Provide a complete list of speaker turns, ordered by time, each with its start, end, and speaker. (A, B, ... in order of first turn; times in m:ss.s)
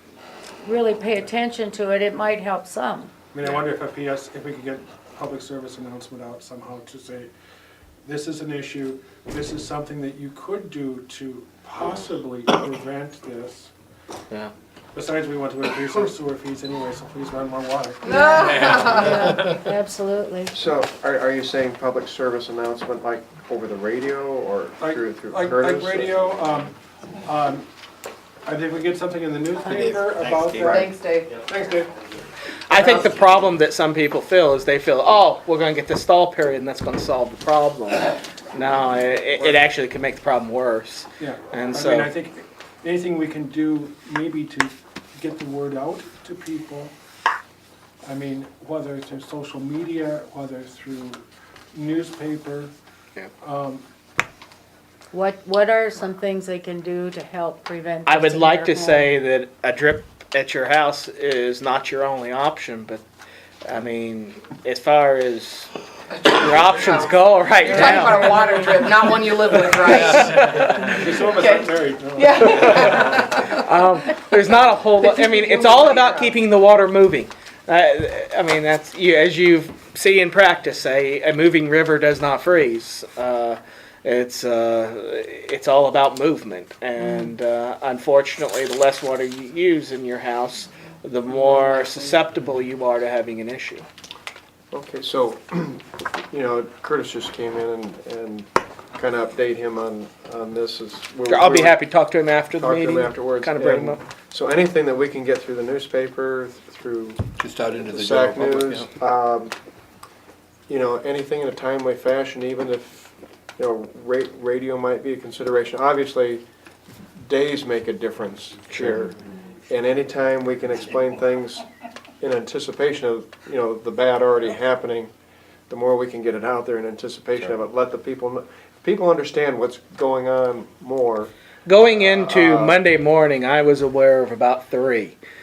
0:00.6-0:03.1 A
0:03.3-0:07.3 B
0:08.0-0:13.7 B
0:14.9-0:18.1 B
0:18.0-0:19.5 C
0:18.1-0:20.5 A
0:20.5-0:26.5 D
0:24.8-0:27.7 B
0:28.4-0:30.9 B
0:29.6-0:31.5 E
0:30.6-0:31.4 C
0:31.4-0:31.9 B
0:32.7-0:42.1 F
0:32.8-0:33.1 C
0:33.1-0:33.4 E
0:41.2-0:46.9 B
0:48.0-0:52.7 B
0:53.4-0:53.8 B
0:55.1-0:59.1 A
0:58.1-1:03.0 F
1:03.6-1:05.7 F
1:06.1-1:10.4 C
1:06.3-1:09.0 F
1:09.5-1:11.0 F
1:10.4-1:13.2 B
1:10.9-1:13.6 C
1:12.4-1:33.9 F
1:15.0-1:16.3 C
1:27.0-1:27.3 A
1:34.7-1:41.8 D
1:41.3-1:44.0 F
1:42.6-1:47.2 D
1:47.4-1:48.9 E
1:47.8-1:49.6 D
1:50.7-1:56.4 D
1:57.1-1:59.2 D
1:59.7-2:01.6 D
2:02.2-2:05.1 D
2:05.7-2:11.3 D
2:11.7-2:15.2 F
2:11.9-2:12.8 D